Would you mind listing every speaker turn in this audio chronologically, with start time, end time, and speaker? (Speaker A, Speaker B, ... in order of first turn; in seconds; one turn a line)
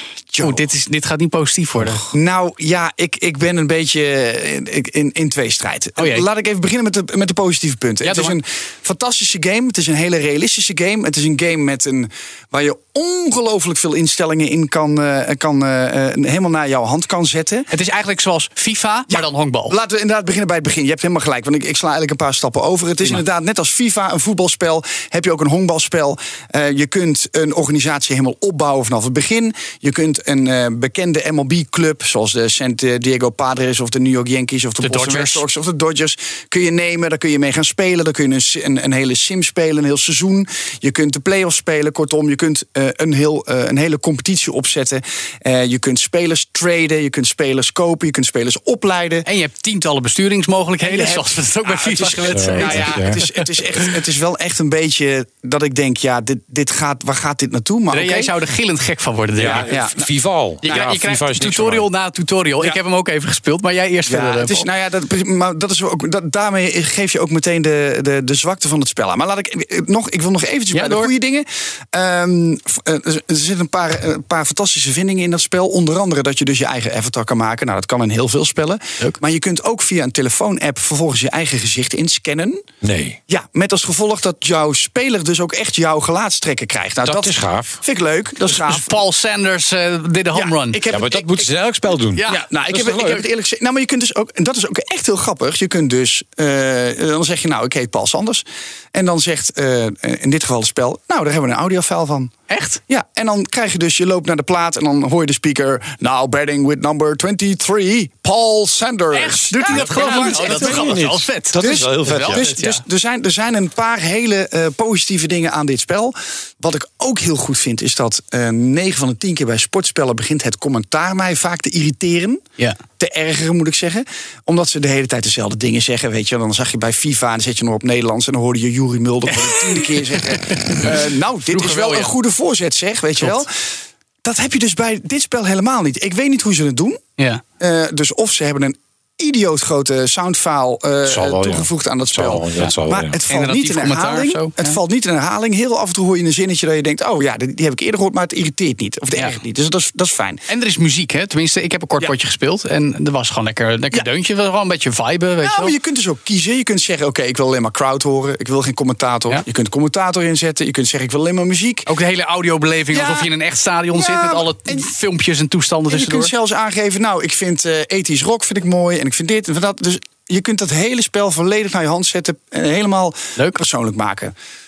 Speaker A: 0.3-0.7
Speaker B: 0.4-2.0
Speaker A: 1.8-17.7
Speaker B: 6.0-6.3
Speaker B: 8.0-8.4
Speaker B: 17.7-19.8
Speaker A: 19.1-49.3
Speaker B: 34.8-35.4
Speaker B: 49.2-53.5
Speaker A: 50.8-58.3
Speaker C: 52.3-53.2
Speaker B: 57.9-59.7
Speaker C: 59.4-61.9
Speaker A: 59.4-60.1
Speaker A: 60.6-61.0
Speaker B: 60.6-64.7
Speaker A: 64.1-82.6
Speaker B: 70.7-71.1
Speaker C: 82.8-83.2
Speaker A: 83.3-89.0
Speaker C: 87.1-87.8
Speaker B: 88.5-90.8
Speaker A: 90.3-91.5
Speaker C: 90.9-92.2
Speaker B: 92.1-93.2
Speaker A: 92.2-102.3
Speaker B: 102.5-102.8
Speaker A: 102.9-111.0
Speaker B: 109.1-112.8
Speaker C: 109.7-112.5
Speaker A: 111.5-122.4
Speaker A: 123.0-133.5
Speaker B: 129.4-132.2
Speaker A: 134.2-137.0
Speaker B: 137.2-137.4
Speaker A: 137.6-150.4
Speaker C: 141.1-143.2
Speaker B: 143.3-144.8
Speaker B: 150.5-155.8
Speaker A: 155.4-161.9
Speaker B: 161.9-166.3
Speaker A: 162.9-163.3
Speaker A: 163.9-164.9
Speaker A: 165.9-174.3
Speaker B: 173.4-173.6